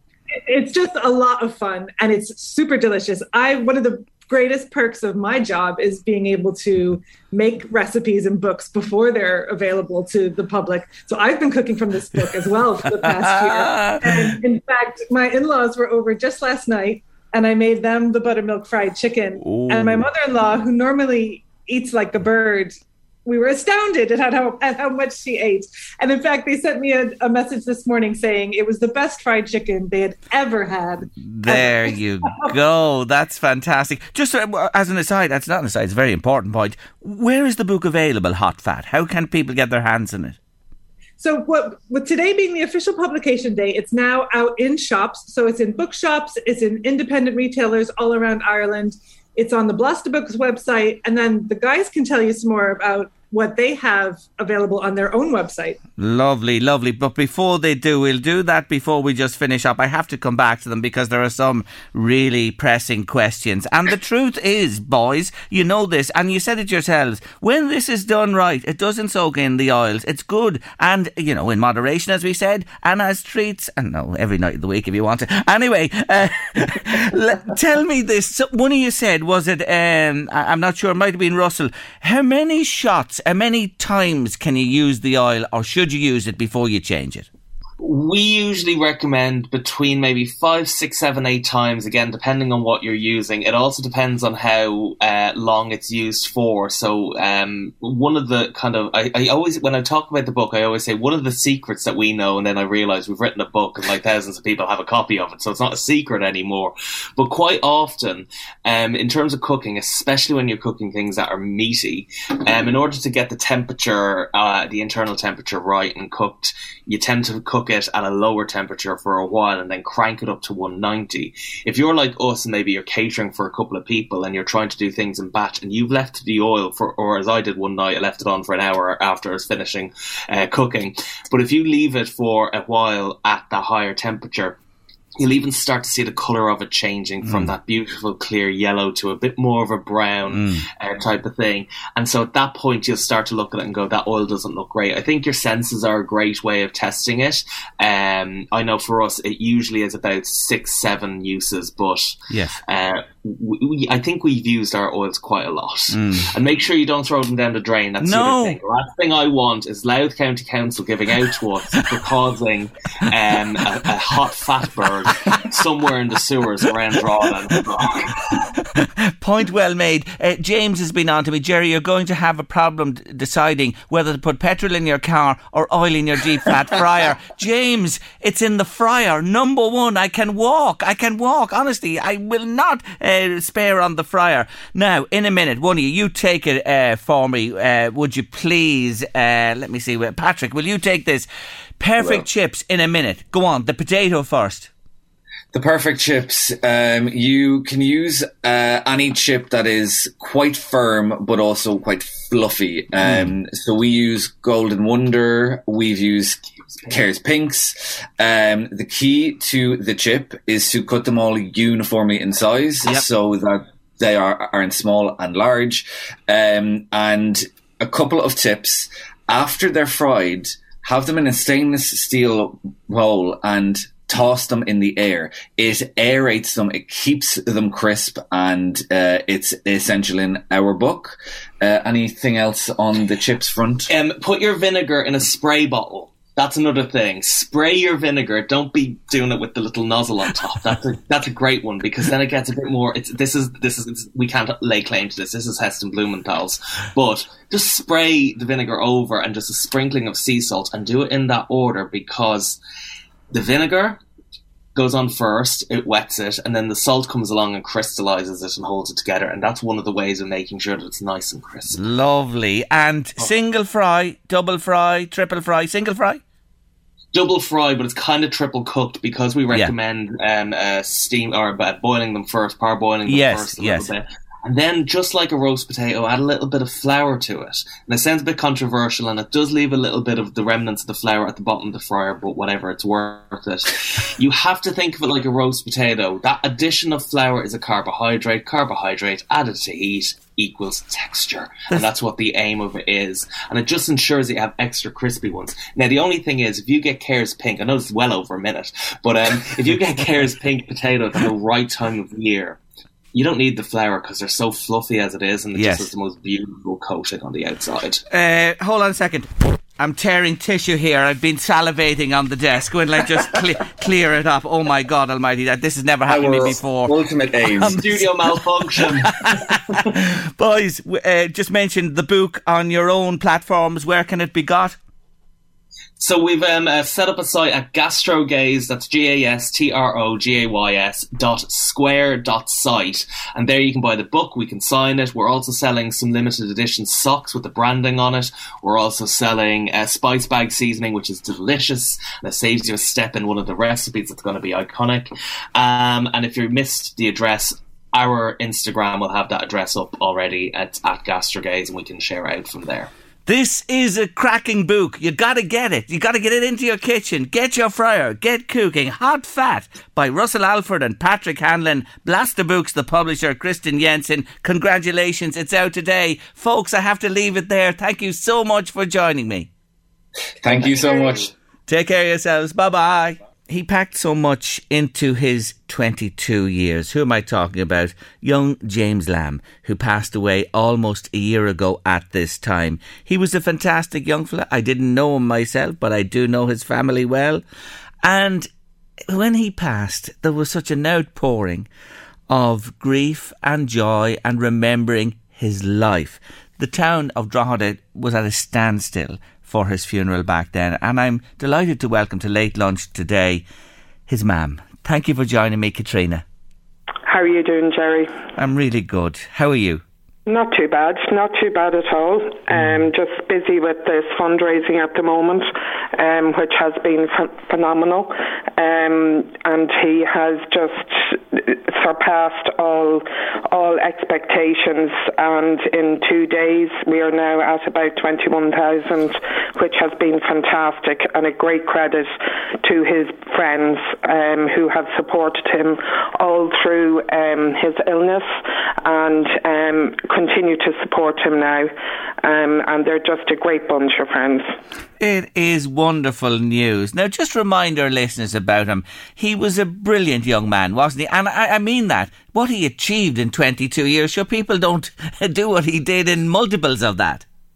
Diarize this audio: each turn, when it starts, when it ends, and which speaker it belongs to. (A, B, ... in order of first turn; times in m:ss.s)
0:00.3-0:32.5 A
0:12.9-0:14.4 B
0:19.4-0:20.1 B
0:31.2-0:40.4 B
0:41.2-0:55.8 A
0:56.0-1:27.3 B
1:27.8-2:14.6 C
2:15.2-2:48.4 C
2:17.2-2:17.5 B
2:20.3-2:20.6 B
2:32.3-2:32.6 B
2:35.9-2:36.3 B
2:38.0-2:38.6 B
2:45.0-2:45.4 B
2:47.8-3:11.3 B
3:11.8-3:14.7 B
3:12.0-3:12.2 D
3:15.5-3:53.9 D
3:23.0-3:23.3 B
3:53.9-4:12.6 C
4:13.3-4:14.0 C
4:14.7-4:21.8 C
4:21.7-4:26.2 B
4:27.1-5:02.6 C
4:33.0-4:33.9 B
5:03.1-5:08.0 C
5:05.5-5:05.9 B
5:08.1-5:24.8 B
5:16.1-5:18.0 D
5:17.6-5:19.9 C
5:26.0-5:52.9 C
5:53.2-6:09.5 B
6:10.4-6:11.3 D
6:10.6-6:11.1 C
6:11.7-6:27.4 B
6:28.0-6:28.5 B
6:29.1-6:31.7 B
6:32.3-6:43.4 B
6:44.1-6:46.2 B
6:47.0-6:48.1 E
6:48.4-6:49.8 B
6:50.3-7:18.3 E
7:18.8-7:21.7 E
7:22.2-7:24.5 E
7:25.0-7:37.2 B